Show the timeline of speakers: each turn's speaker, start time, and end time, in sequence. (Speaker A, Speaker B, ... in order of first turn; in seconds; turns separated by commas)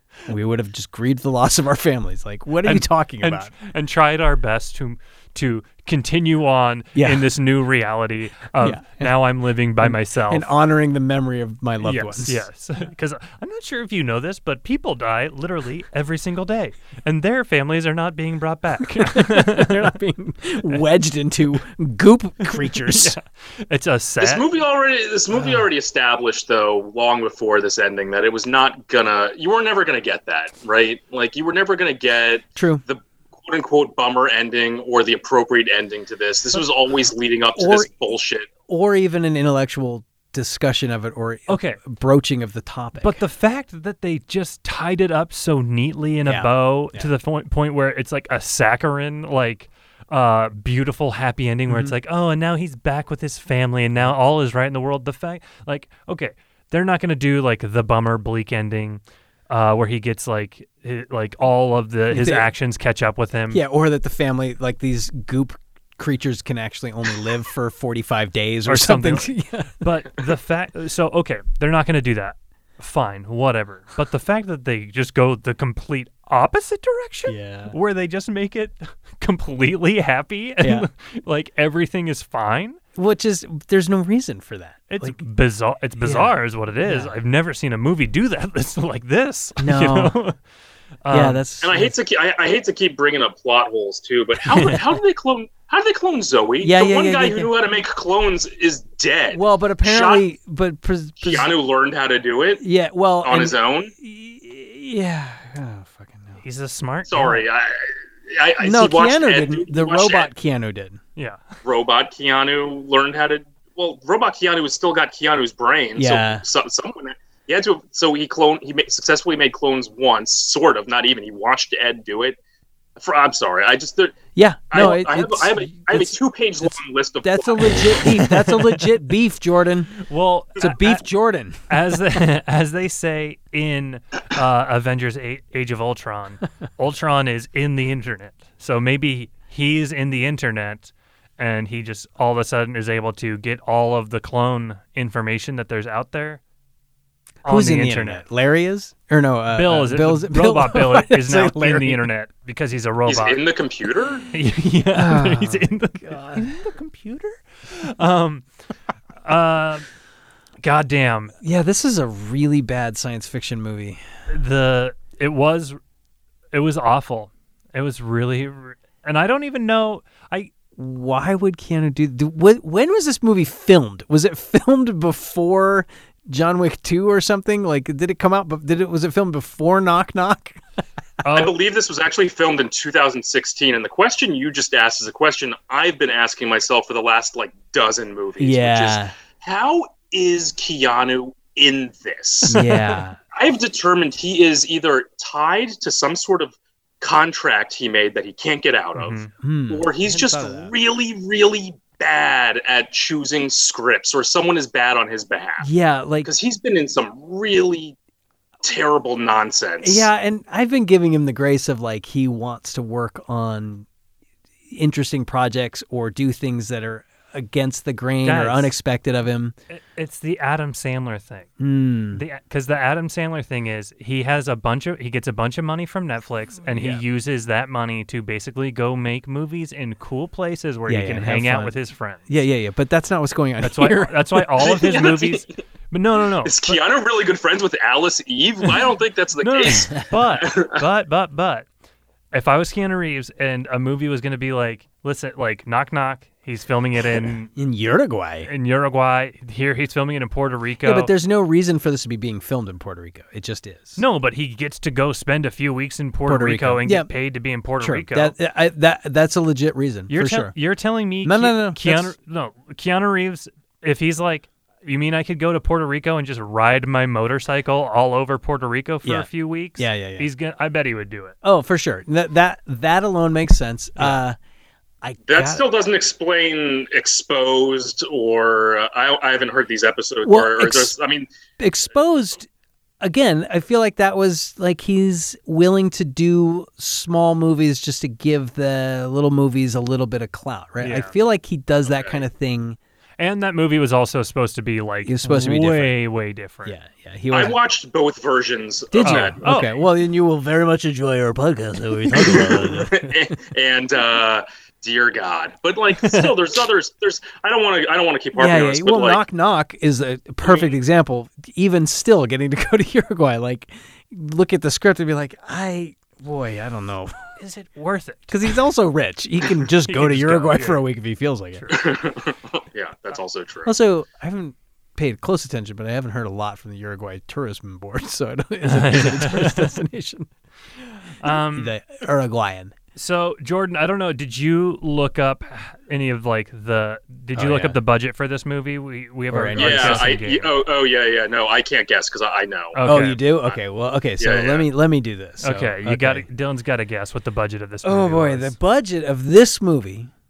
Speaker A: 0.2-3.5, Speaker B: 2.6-10.5, Speaker A: 6.9-7.3, Speaker A: 8.6-9.1, Speaker A: 9.8-12.4, Speaker B: 11.8-19.9, Speaker A: 18.8-23.1, Speaker B: 22.8-24.5, Speaker C: 24.2-38.5, Speaker A: 25.3-25.6, Speaker A: 32.6-32.8, Speaker A: 37.5-37.9, Speaker A: 38.7-43.2, Speaker B: 41.5-41.8, Speaker B: 43.0-63.6, Speaker A: 46.2-47.1, Speaker A: 51.7-51.9, Speaker A: 62.1-62.5, Speaker A: 63.5-69.9, Speaker B: 68.6-82.8, Speaker A: 77.3-77.7, Speaker A: 80.6-80.9, Speaker A: 83.0-85.2, Speaker B: 84.9-90.4, Speaker A: 86.0-87.1, Speaker A: 89.6-90.1, Speaker B: 91.0-91.4, Speaker A: 91.1-91.9, Speaker C: 91.6-100.2, Speaker A: 96.6-97.5, Speaker A: 99.3-101.5, Speaker C: 101.2-102.6, Speaker A: 102.6-106.4, Speaker C: 103.2-103.9, Speaker B: 106.4-107.3, Speaker C: 107.1-110.3, Speaker A: 108.6-111.0, Speaker B: 111.2-111.4, Speaker C: 111.6-122.4, Speaker A: 116.0-116.4, Speaker C: 123.0-128.1, Speaker A: 124.3-126.7, Speaker A: 127.2-130.0, Speaker B: 128.2-128.8, Speaker B: 130.0-131.0, Speaker A: 130.6-131.7, Speaker B: 131.7-146.4, Speaker B: 147.4-148.2, Speaker A: 147.4-152.1, Speaker B: 149.5-153.4, Speaker C: 153.1-154.3, Speaker B: 154.3-158.5, Speaker A: 154.9-156.6, Speaker B: 159.2-159.9, Speaker B: 160.6-161.3, Speaker A: 161.4-164.0, Speaker B: 164.3-165.8, Speaker B: 166.5-170.5, Speaker A: 170.8-180.6, Speaker B: 181.2-181.5, Speaker C: 181.3-192.6, Speaker A: 188.4-189.1, Speaker A: 192.5-193.2, Speaker B: 192.5-193.0, Speaker C: 193.3-205.7, Speaker B: 198.9-199.3, Speaker A: 199.4-200.7, Speaker A: 205.6-206.3, Speaker C: 206.2-207.9, Speaker C: 208.6-210.1, Speaker A: 209.8-213.9, Speaker A: 214.7-219.6, Speaker B: 218.2-218.7, Speaker B: 219.7-221.5, Speaker A: 221.6-222.2, Speaker B: 222.1-232.3, Speaker A: 226.7-227.0, Speaker A: 230.9-234.5, Speaker B: 233.6-236.8, Speaker C: 234.6-235.6, Speaker C: 236.4-240.8, Speaker B: 239.4-241.7, Speaker B: 242.3-247.5, Speaker A: 247.5-248.5, Speaker B: 248.4-251.1, Speaker A: 250.8-254.0, Speaker B: 254.0-258.3, Speaker A: 256.3-257.1, Speaker A: 257.8-260.5, Speaker B: 260.1-271.3, Speaker A: 261.2-262.1, Speaker A: 269.0-270.3, Speaker A: 271.4-274.4, Speaker A: 275.0-275.6, Speaker C: 275.3-281.3, Speaker A: 280.2-280.9, Speaker A: 281.6-282.5, Speaker A: 283.0-292.8, Speaker B: 290.8-291.1, Speaker C: 291.9-292.2, Speaker B: 293.2-296.8, Speaker A: 295.0-296.0, Speaker A: 296.6-297.6, Speaker C: 297.3-299.4, Speaker A: 298.9-303.3, Speaker B: 299.0-299.8, Speaker C: 302.1-309.2, Speaker B: 306.0-306.3, Speaker A: 308.4-317.2, Speaker C: 310.4-310.7, Speaker B: 317.4-318.5, Speaker A: 318.3-321.7, Speaker B: 319.9-320.8, Speaker B: 321.5-321.9, Speaker C: 321.7-323.8, Speaker A: 323.6-330.3, Speaker B: 328.6-329.7, Speaker B: 331.2-331.7, Speaker A: 331.2-332.7, Speaker B: 332.9-340.5, Speaker A: 337.3-337.8, Speaker A: 339.3-340.1, Speaker C: 339.6-342.8, Speaker B: 342.7-343.2, Speaker A: 342.8-346.3, Speaker C: 344.2-344.6, Speaker B: 345.4-348.6, Speaker A: 347.8-350.1